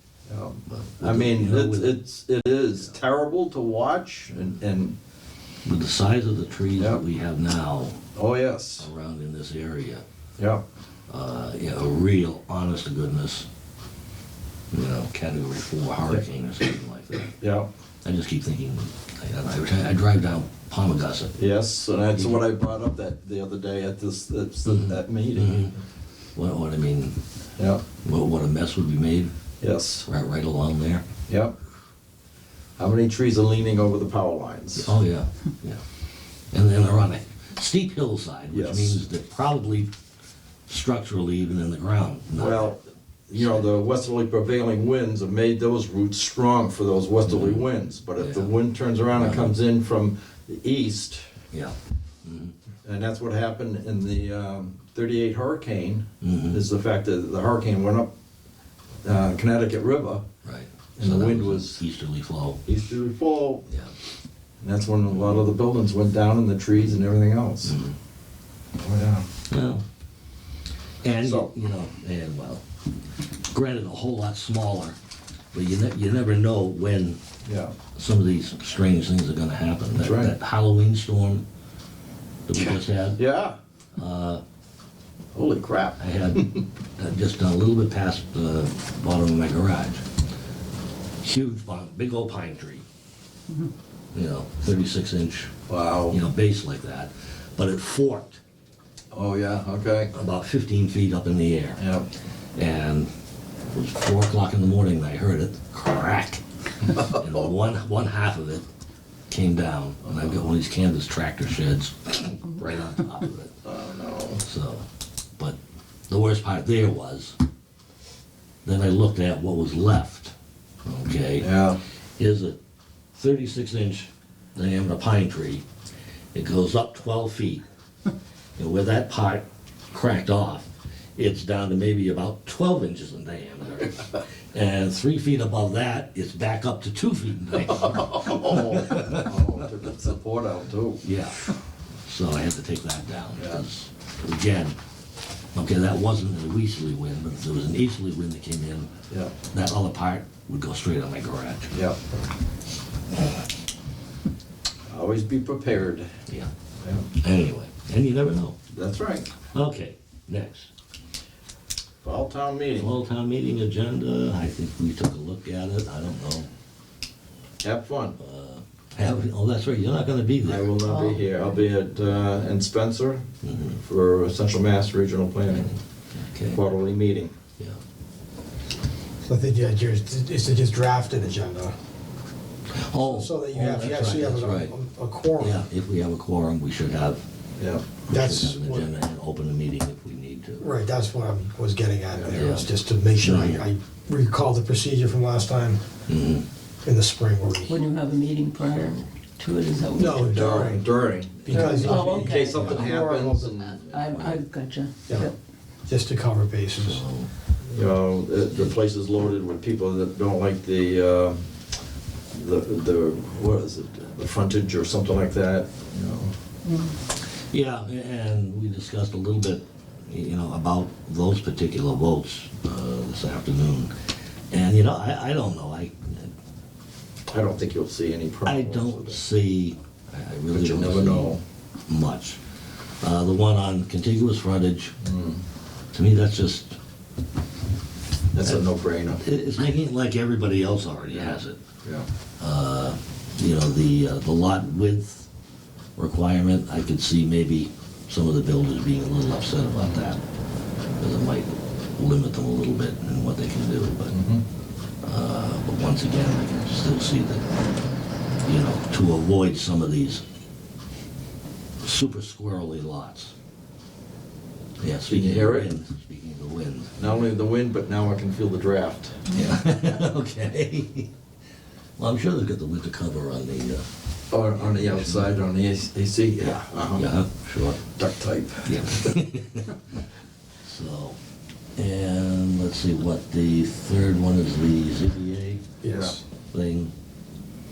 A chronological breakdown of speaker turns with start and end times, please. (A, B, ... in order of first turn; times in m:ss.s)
0:00.3-0:05.0 A
0:00.7-0:02.0 B
0:05.6-0:08.0 B
0:06.8-0:07.0 A
0:08.1-0:08.9 A
0:08.8-0:10.0 B
0:10.4-0:10.6 A
0:11.1-0:13.5 B
0:14.7-0:17.4 B
0:17.4-0:17.7 A
0:18.0-0:21.4 B
0:21.4-0:25.7 A
0:22.2-0:22.4 B
0:24.6-0:25.7 B
0:26.3-0:27.2 B
0:27.6-0:27.8 A
0:28.0-0:29.3 B
0:29.6-0:30.1 A
0:30.0-0:31.0 B
0:31.3-0:31.5 A
0:32.8-0:34.9 A
0:34.8-0:35.8 B
0:36.5-0:39.9 B
0:38.5-0:39.0 A
0:40.7-0:42.8 B
0:42.4-0:51.3 A
0:43.3-0:43.6 B
0:47.3-0:48.5 B
0:49.1-0:49.6 B
0:51.5-0:52.5 B
0:52.8-0:58.1 A
0:56.2-0:56.6 B
0:59.0-1:00.2 A
1:00.4-1:02.6 B
1:01.0-1:01.8 A
1:02.6-1:03.6 A
1:04.6-1:07.8 A
1:05.1-1:05.4 B
1:07.6-1:08.0 B
1:08.8-1:09.3 A
1:09.5-1:09.8 B
1:11.0-1:12.6 B
1:11.2-1:11.5 A
1:13.5-1:15.0 B
1:15.5-1:17.2 B
1:17.4-1:17.7 A
1:18.0-1:21.4 B
1:19.9-1:20.3 A
1:22.5-1:23.2 B
1:22.6-1:23.6 A
1:24.0-1:24.4 B
1:25.3-1:26.6 A
1:26.0-1:30.0 B
1:31.2-1:32.8 B
1:34.1-1:35.5 B
1:35.7-1:36.2 A
1:36.1-1:38.4 B
1:39.1-1:40.1 A
1:40.1-1:41.8 B
1:41.8-1:42.1 A
1:42.6-1:43.1 B
1:43.7-1:48.6 B
1:49.3-1:53.5 B
1:50.0-1:50.4 A
1:53.6-1:54.4 A
1:54.4-1:54.8 B
1:56.1-1:57.4 B
1:58.6-2:00.3 B
2:00.8-2:01.6 B
2:01.4-2:01.8 A
2:02.2-2:02.6 B
2:03.1-2:05.6 B
2:06.3-2:07.6 B
2:08.6-2:19.3 B
2:17.6-2:21.0 A
2:21.0-2:21.4 B
2:22.0-2:24.8 B
2:23.4-2:23.6 A
2:25.5-2:28.9 B
2:29.5-2:31.8 B
2:31.7-2:32.1 A
2:34.9-2:36.1 A
2:36.8-2:37.1 A
2:37.2-2:38.6 B
2:38.7-2:39.3 A
2:39.5-2:40.7 B
2:42.0-2:43.0 A
2:42.8-2:46.5 B
2:47.6-2:48.2 A
2:48.2-2:50.7 B
2:50.4-2:55.8 A
2:50.8-2:51.4 C
2:53.4-2:53.8 B
2:55.5-2:56.6 B
2:56.5-2:57.3 A
2:59.3-3:01.7 D
3:02.8-3:04.7 B
3:03.0-3:05.6 D
3:05.4-3:07.2 B
3:07.6-3:07.8 A
3:08.1-3:10.7 B
3:08.1-3:08.9 D
3:10.6-3:15.8 D
3:12.1-3:12.4 A
3:12.3-3:13.6 B
3:16.1-3:16.4 B
3:16.8-3:17.7 D
3:17.7-3:20.7 C
3:19.9-3:20.8 D
3:20.3-3:24.3 A
3:21.4-3:22.9 D
3:21.5-3:25.3 C
3:24.1-3:24.4 B
3:25.9-3:27.0 D
3:26.7-3:27.3 B
3:27.7-3:31.4 A
3:32.3-3:36.3 A
3:36.6-3:37.0 C
3:37.5-3:43.9 B
3:44.5-3:46.3 B
3:47.3-3:49.2 A
3:48.4-3:52.4 B
3:50.5-3:51.4 A
3:53.0-3:54.9 B
3:55.0-3:55.4 A
3:55.9-3:56.8 B
3:58.3-3:59.2 A
3:58.4-4:01.6 B
4:01.1-4:02.0 A
4:02.4-4:05.3 B
4:06.0-4:10.2 B
4:11.0-4:14.1 B
4:14.1-4:14.4 A
4:15.0-4:17.5 B
4:18.4-4:20.2 B
4:21.8-4:23.3 B
4:24.8-4:27.2 B
4:25.1-4:25.7 A
4:27.0-4:30.0 A
4:29.3-4:31.1 B
4:32.0-4:33.8 B
4:34.3-4:37.1 A
4:34.5-4:35.4 B
4:36.4-4:37.8 B
4:37.9-4:39.1 A
4:38.6-4:39.8 B
4:40.6-4:41.2 B
4:41.8-4:45.6 B
4:45.8-4:46.2 D
4:45.8-4:46.2 A
4:46.5-4:46.9 B